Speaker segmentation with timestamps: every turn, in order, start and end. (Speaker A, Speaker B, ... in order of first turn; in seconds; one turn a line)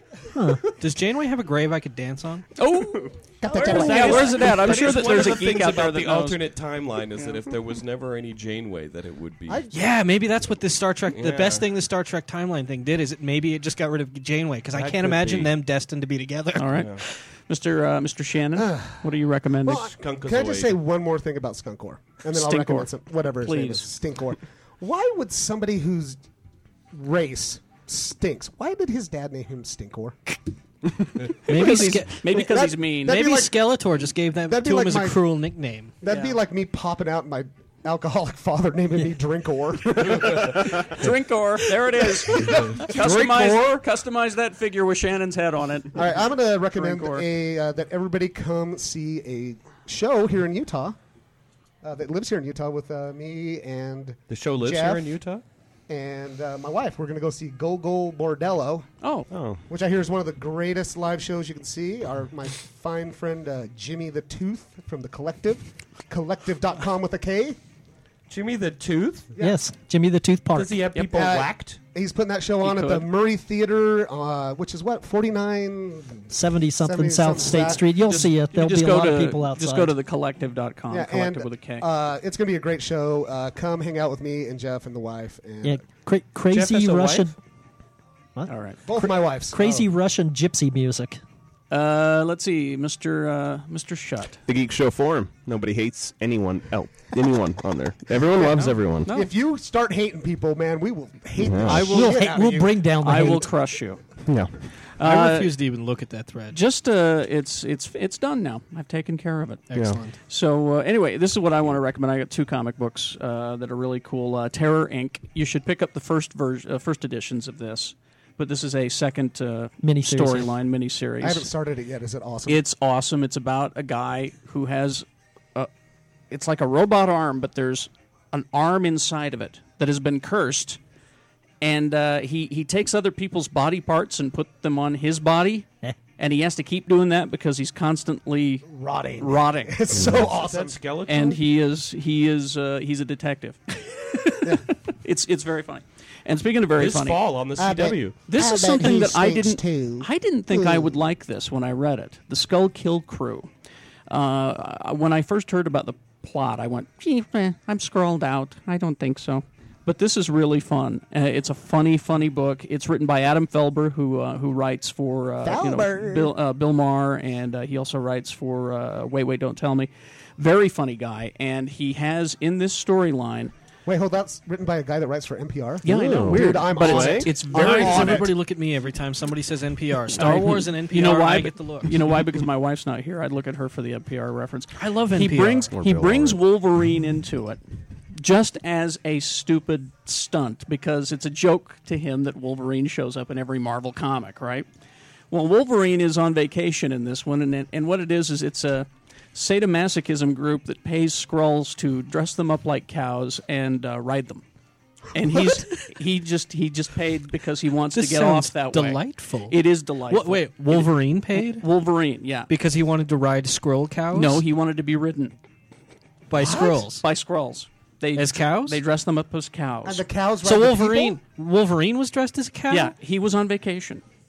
Speaker A: 0.3-0.6
Speaker B: 0.7-2.5
Speaker C: 2.6-6.4
Speaker D: 3.4-4.2
Speaker E: 3.5-9.7
Speaker B: 3.6-5.7
Speaker D: 9.5-9.9
Speaker B: 9.7-16.9
Speaker E: 11.1-11.7
Speaker E: 14.7-15.5
Speaker C: 16.6-19.9
Speaker E: 16.8-17.1
Speaker D: 18.6-19.1
Speaker D: 19.6-26.2
Speaker E: 19.8-20.8
Speaker C: 22.3-23.9
Speaker D: 26.9-30.4
Speaker B: 31.5-32.2
Speaker C: 31.5-33.2
Speaker D: 32.3-33.8
Speaker B: 33.1-35.9
Speaker D: 34.5-35.3
Speaker D: 36.0-41.1
Speaker C: 36.1-36.4
Speaker C: 40.8-46.1
Speaker D: 41.9-43.6
Speaker D: 46.0-51.0
Speaker C: 46.7-47.3
Speaker D: 51.8-55.2
Speaker E: 54.3-55.4
Speaker D: 55.9-58.9
Speaker C: 59.0-59.3
Speaker F: 59.3-59.6
Speaker D: 59.7-67.6
Speaker E: 68.3-69.3
Speaker A: 69.4-70.8
Speaker E: 70.5-71.8
Speaker D: 70.9-77.8
Speaker C: 72.6-73.1
Speaker A: 76.3-80.0
Speaker C: 78.0-81.9
Speaker D: 80.9-85.8
Speaker A: 85.6-87.4
Speaker E: 86.5-87.3
Speaker A: 88.3-91.2
Speaker C: 88.5-88.8
Speaker D: 88.9-89.9
Speaker C: 91.7-94.4
Speaker F: 94.5-99.1
Speaker C: 98.4-99.3
Speaker D: 99.1-102.8
Speaker F: 101.4-101.9
Speaker A: 101.7-103.5
Speaker C: 101.7-102.3
Speaker C: 103.0-104.0
Speaker C: 105.0-105.5
Speaker B: 105.0-106.6
Speaker C: 106.5-109.6
Speaker B: 109.7-110.2
Speaker F: 109.7-110.0
Speaker C: 110.3-121.5
Speaker A: 119.8-120.5
Speaker D: 121.2-122.6
Speaker C: 122.5-125.7
Speaker C: 126.3-130.8
Speaker C: 131.6-135.7
Speaker C: 136.2-138.7
Speaker D: 138.7-140.8
Speaker C: 139.2-140.1
Speaker F: 139.9-140.2
Speaker E: 140.1-141.4
Speaker C: 141.1-147.2
Speaker D: 144.4-144.7
Speaker E: 146.8-148.2
Speaker D: 147.6-151.0
Speaker C: 148.3-153.5
Speaker C: 154.1-173.5
Speaker D: 165.4-166.3
Speaker D: 173.9-178.3
Speaker C: 175.8-178.3
Speaker F: 175.9-177.3
Speaker B: 177.2-182.2
Speaker C: 180.2-187.6
Speaker B: 184.7-185.7
Speaker F: 185.7-186.4
Speaker C: 188.2-194.7
Speaker C: 195.3-204.4
Speaker C: 205.1-212.5
Speaker D: 205.3-205.6
Speaker B: 207.9-211.7
Speaker B: 212.5-214.4
Speaker C: 214.1-215.4
Speaker B: 216.3-217.0
Speaker D: 216.4-216.9
Speaker C: 216.4-220.1
Speaker B: 218.2-218.8
Speaker D: 219.8-221.2
Speaker B: 220.4-222.9
Speaker C: 222.7-224.0